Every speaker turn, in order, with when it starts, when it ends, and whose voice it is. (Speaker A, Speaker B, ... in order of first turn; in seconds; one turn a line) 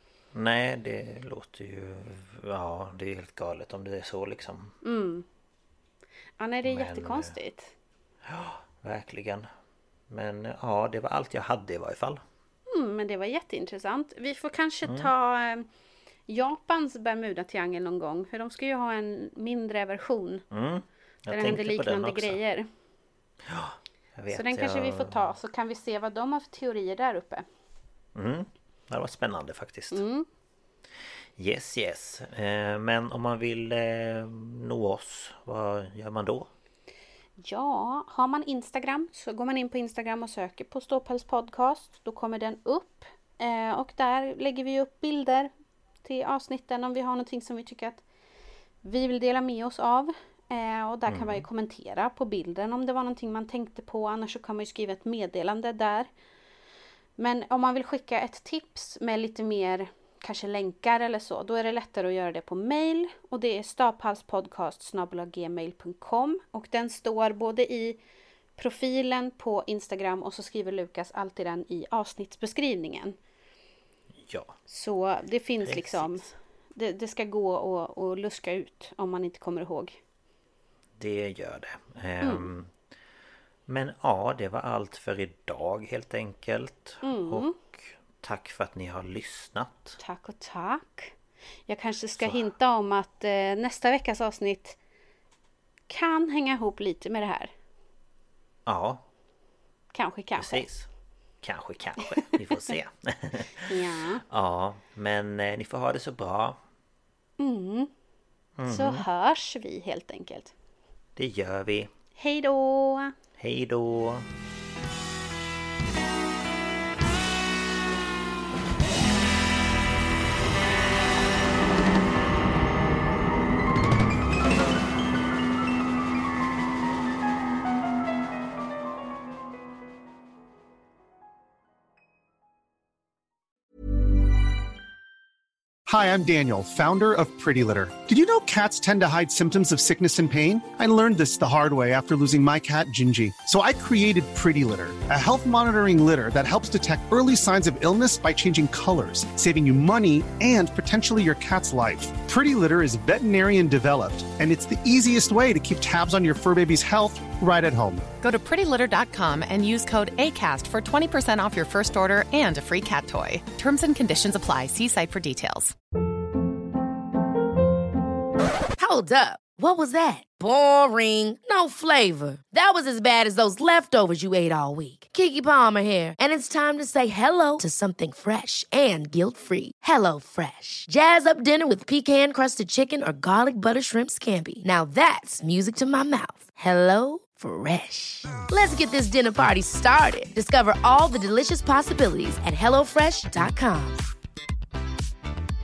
Speaker A: 0.3-4.7
Speaker B: 4.8-5.2
Speaker B: 6.4-7.7
Speaker A: 6.6-7.3
Speaker A: 8.2-9.5
Speaker A: 10.1-12.2
Speaker B: 12.7-15.7
Speaker A: 14.8-15.1
Speaker B: 16.3-20.4
Speaker A: 20.5-22.4
Speaker B: 21.3-22.7
Speaker A: 23.4-25.3
Speaker B: 24.3-27.4
Speaker A: 28.1-30.0
Speaker B: 29.9-30.2
Speaker A: 31.4-36.5
Speaker B: 37.4-45.5
Speaker B: 46.0-48.0
Speaker B: 48.8-56.1
Speaker A: 51.1-51.5
Speaker B: 57.2-68.0
Speaker B: 68.6-73.2
Speaker A: 74.2-74.5
Speaker B: 74.7-80.0
Speaker A: 75.6-76.3
Speaker A: 81.0-82.7
Speaker B: 82.2-82.5
Speaker A: 83.7-90.0
Speaker B: 87.0-87.5
Speaker B: 90.0-91.1
Speaker B: 91.7-94.8
Speaker A: 92.1-92.5
Speaker B: 95.9-97.5
Speaker A: 98.7-99.0
Speaker B: 99.9-100.7
Speaker A: 100.4-100.9
Speaker A: 101.4-103.7
Speaker B: 103.6-104.2
Speaker A: 104.3-106.6
Speaker B: 107.4-107.9
Speaker A: 108.6-109.0
Speaker B: 108.7-110.5
Speaker A: 111.2-111.9
Speaker B: 112.2-113.1
Speaker A: 113.4-114.3
Speaker C: 135.9-158.1
Speaker D: 158.2-165.8
Speaker E: 168.8-194.0